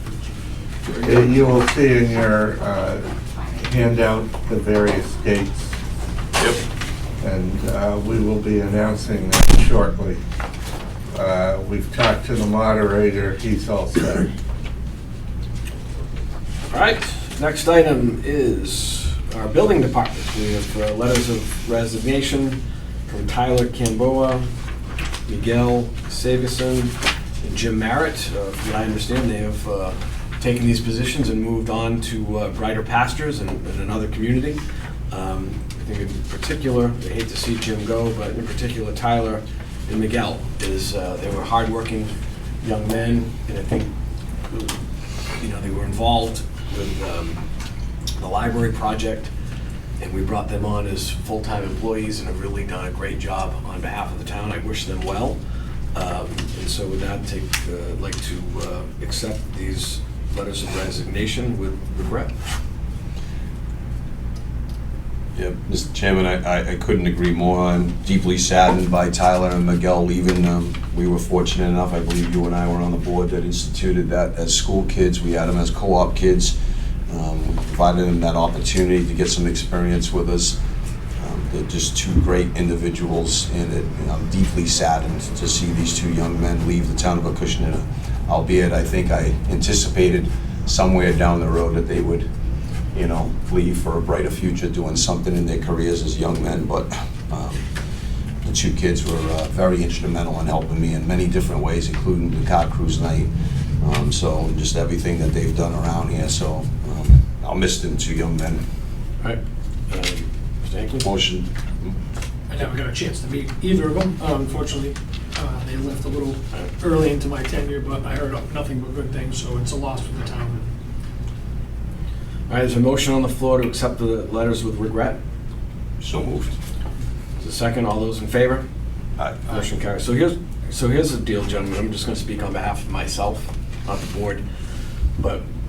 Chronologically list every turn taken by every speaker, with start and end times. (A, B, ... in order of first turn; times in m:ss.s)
0:01.0-0:05.8 A
0:06.4-0:06.6 B
0:07.2-0:10.2 A
0:11.1-0:14.3 A
0:16.7-0:24.5 C
0:25.3-0:34.6 C
0:35.1-0:43.9 C
0:44.5-0:44.8 C
0:45.4-0:47.4 C
0:48.2-0:49.3 C
0:50.0-0:55.4 C
0:55.9-1:02.3 C
1:05.3-1:16.6 B
1:17.1-1:20.6 B
1:21.2-1:32.2 B
1:32.9-1:37.6 B
1:38.4-1:48.6 B
1:49.9-1:51.1 C
1:51.0-1:51.9 B
1:52.5-2:00.7 D
2:02.5-2:05.2 C
2:06.0-2:06.6 B
2:07.4-2:08.6 C
2:09.4-2:14.4 C
2:15.2-2:15.4 C